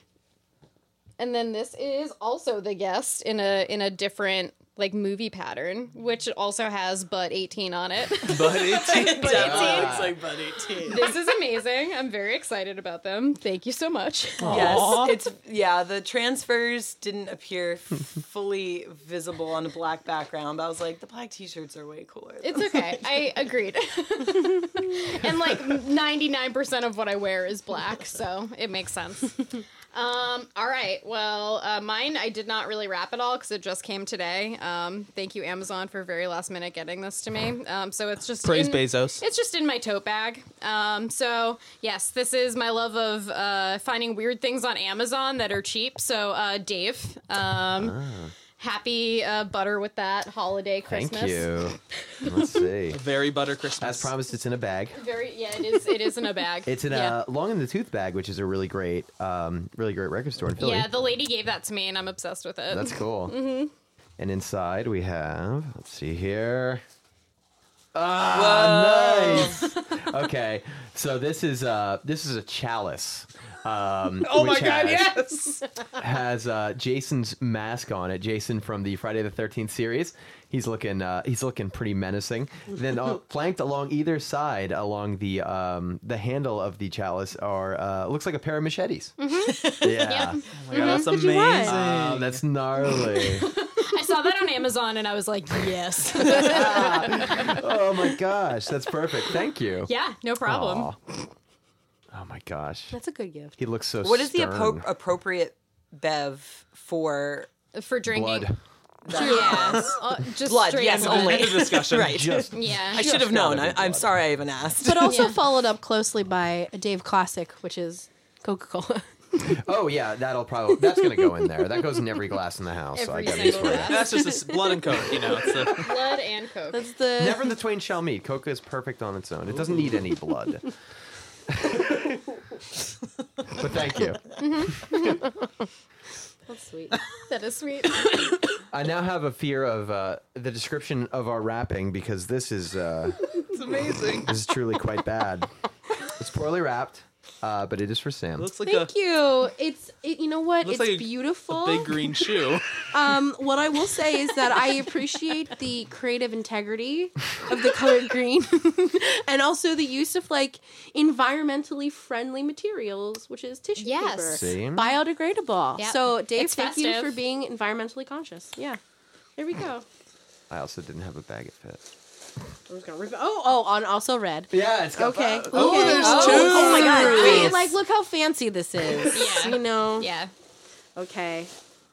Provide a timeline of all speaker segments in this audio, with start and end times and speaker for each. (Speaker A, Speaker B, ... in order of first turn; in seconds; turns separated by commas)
Speaker A: 1.2-10.1, Speaker B: 8.2-9.8, Speaker C: 8.4-11.2, Speaker D: 9.2-10.2, Speaker A: 10.8-14.9, Speaker B: 14.4-15.2, Speaker C: 14.4-23.0, Speaker D: 14.5-14.8, Speaker A: 22.4-48.0, Speaker B: 38.4-39.2, Speaker D: 47.8-48.3, Speaker A: 48.6-51.7, Speaker D: 50.9-53.0, Speaker B: 52.9-54.1, Speaker D: 53.8-55.0, Speaker A: 55.0-57.2, Speaker D: 56.6-60.9, Speaker A: 60.6-63.7, Speaker D: 62.7-63.4, Speaker D: 64.2-66.8, Speaker D: 67.9-75.2, Speaker C: 68.3-69.7, Speaker B: 74.2-75.7, Speaker D: 76.0-90.4, Speaker E: 89.2-89.7, Speaker A: 90.0-91.0, Speaker B: 90.5-92.4, Speaker E: 90.7-91.8, Speaker D: 91.6-93.5, Speaker A: 93.1-97.6, Speaker D: 96.2-99.9, Speaker A: 99.8-100.9, Speaker D: 100.4-101.0, Speaker D: 102.1-103.0, Speaker E: 102.9-103.6, Speaker D: 103.6-104.8, Speaker C: 104.0-107.5, Speaker A: 107.7-108.5, Speaker D: 108.1-108.5, Speaker C: 109.0-115.3, Speaker A: 109.1-111.6, Speaker E: 109.1-109.9, Speaker B: 110.9-112.4, Speaker D: 111.9-114.1, Speaker A: 112.5-113.0, Speaker E: 114.8-119.6, Speaker A: 115.0-115.4, Speaker D: 119.5-124.1, Speaker E: 120.9-121.6, Speaker A: 122.9-124.3, Speaker E: 123.2-125.0, Speaker B: 123.8-126.0, Speaker A: 125.7-126.8, Speaker E: 126.7-127.6, Speaker D: 127.2-130.7, Speaker B: 129.5-130.0, Speaker D: 131.5-132.4, Speaker D: 133.5-134.9, Speaker A: 134.4-135.2, Speaker E: 136.5-137.0, Speaker A: 137.3-138.4, Speaker D: 138.7-143.2, Speaker B: 143.5-144.3, Speaker D: 144.3-145.5, Speaker D: 146.1-148.5, Speaker B: 148.4-148.9, Speaker E: 148.6-152.4, Speaker B: 150.6-152.8, Speaker E: 152.9-168.8, Speaker A: 163.8-164.4, Speaker D: 164.3-164.9, Speaker A: 165.8-167.2, Speaker E: 169.4-169.8, Speaker D: 170.5-171.8, Speaker E: 172.7-180.1, Speaker D: 174.5-176.1, Speaker B: 175.5-177.7, Speaker C: 175.9-177.7, Speaker A: 176.4-177.4, Speaker A: 179.1-180.3, Speaker E: 180.9-181.5